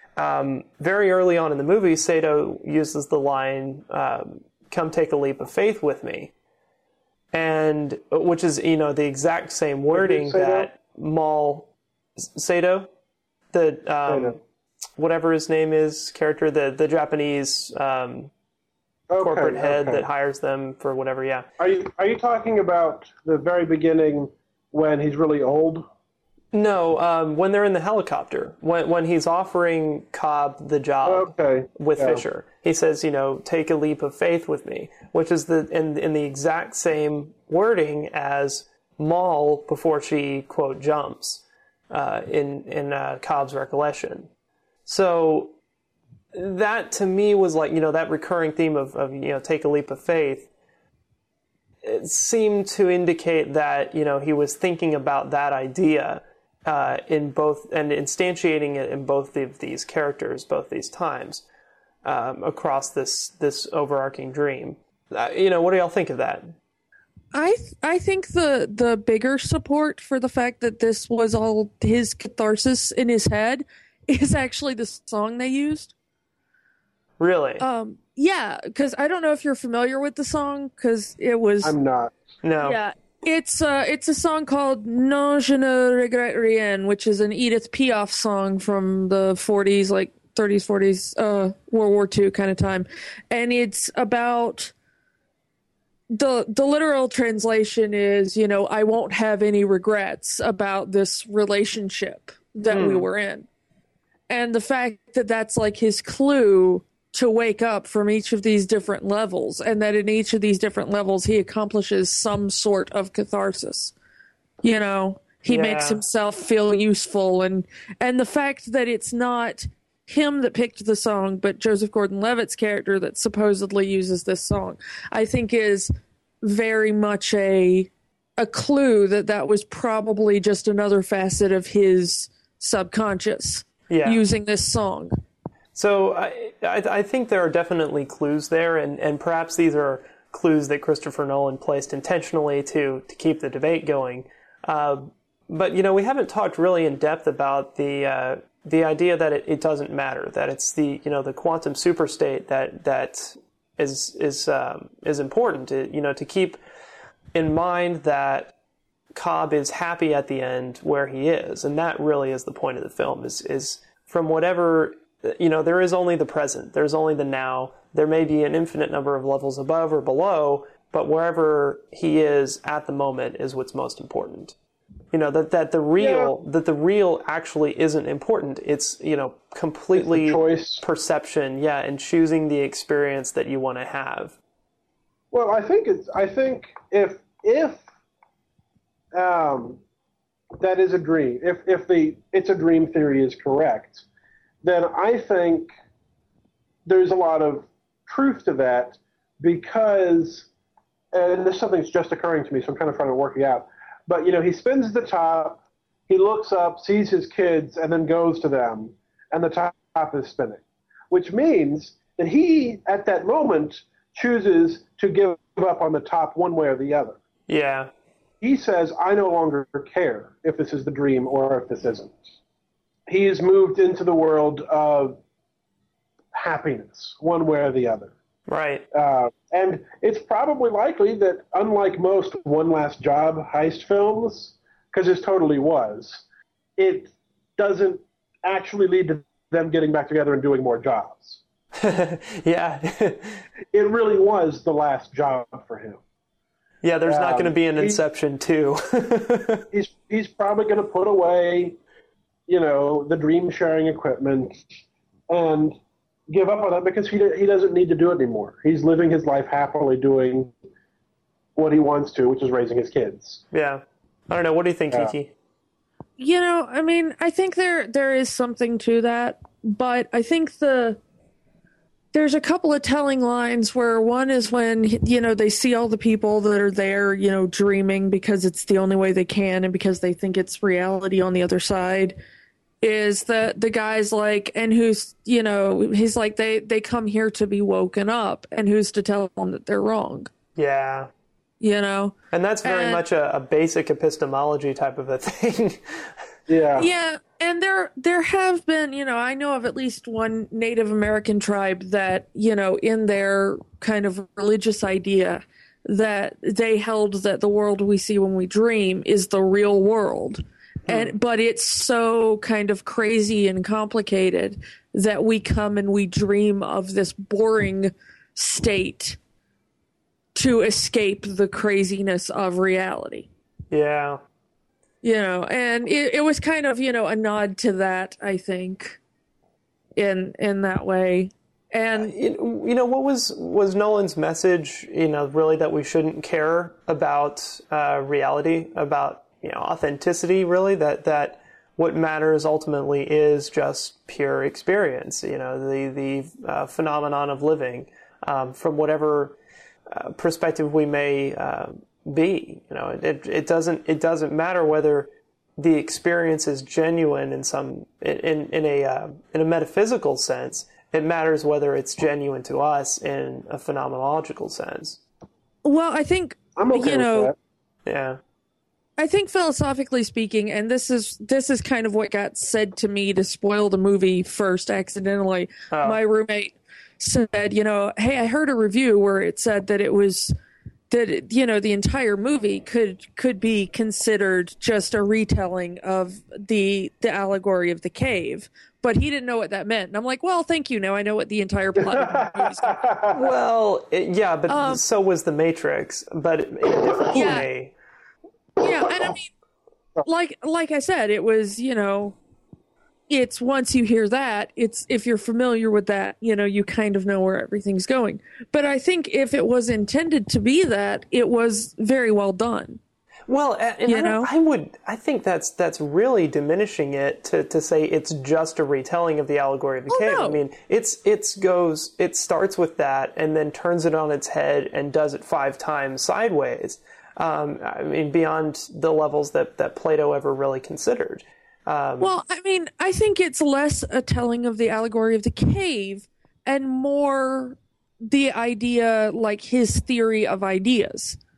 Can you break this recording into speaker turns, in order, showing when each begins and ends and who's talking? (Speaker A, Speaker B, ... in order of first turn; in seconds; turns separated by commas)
Speaker A: 0.2-6.3, Speaker A: 7.3-11.7, Speaker B: 9.9-10.7, Speaker A: 12.3-12.9, Speaker A: 13.5-14.4, Speaker B: 14.1-14.3, Speaker A: 15.0-18.3, Speaker B: 19.1-20.0, Speaker A: 19.2-21.4, Speaker B: 21.6-25.9, Speaker A: 26.5-44.3, Speaker B: 31.0-32.2, Speaker A: 44.9-45.5, Speaker A: 46.3-50.5, Speaker A: 51.8-61.4, Speaker A: 62.0-66.5, Speaker C: 67.3-75.9, Speaker A: 77.2-77.6, Speaker C: 77.6-81.7, Speaker B: 81.6-82.2, Speaker A: 82.4-82.8, Speaker C: 82.6-94.7, Speaker C: 96.1-103.5, Speaker A: 102.7-103.1, Speaker C: 104.3-113.9, Speaker C: 114.6-125.9, Speaker A: 115.5-116.0, Speaker C: 126.4-135.1, Speaker A: 133.9-134.2, Speaker A: 135.7-156.6, Speaker A: 157.3-158.5, Speaker A: 159.1-174.5, Speaker A: 175.1-184.3, Speaker B: 176.0-176.3, Speaker B: 179.9-180.8, Speaker B: 185.3-187.8, Speaker B: 189.1-189.8, Speaker B: 190.6-194.1, Speaker B: 194.6-195.7, Speaker B: 196.8-200.5, Speaker B: 201.1-217.2, Speaker A: 217.5-217.9, Speaker B: 218.4-222.2, Speaker B: 223.1-225.2, Speaker B: 226.3-228.1, Speaker A: 228.5-228.8, Speaker B: 228.9-236.2, Speaker B: 236.8-241.4, Speaker A: 241.8-243.4, Speaker B: 243.7-246.0, Speaker A: 246.8-249.6, Speaker B: 247.1-248.0, Speaker B: 249.7-251.8, Speaker B: 252.5-255.8, Speaker B: 256.3-260.5, Speaker B: 261.6-263.4, Speaker A: 263.5-265.3, Speaker C: 266.2-271.0, Speaker C: 272.1-282.2, Speaker C: 282.8-290.3, Speaker A: 290.6-291.1, Speaker C: 291.6-293.0, Speaker A: 292.3-296.1, Speaker B: 296.5-296.9, Speaker C: 296.8-319.2, Speaker A: 310.9-311.1, Speaker C: 320.3-323.3, Speaker A: 323.7-324.2, Speaker C: 325.0-329.0, Speaker C: 329.9-332.1, Speaker A: 331.9-349.4, Speaker A: 349.9-365.0, Speaker C: 365.6-367.3, Speaker B: 366.6-367.3, Speaker A: 367.9-368.2, Speaker C: 369.0-380.3, Speaker A: 375.7-376.0, Speaker C: 380.9-392.8, Speaker B: 391.8-393.2, Speaker A: 393.1-397.7, Speaker C: 394.5-394.8, Speaker C: 397.1-397.5, Speaker C: 398.6-399.3, Speaker C: 400.0-402.2, Speaker C: 403.1-412.8, Speaker A: 413.3-432.1, Speaker C: 413.9-414.3, Speaker C: 419.9-420.4, Speaker C: 432.0-441.2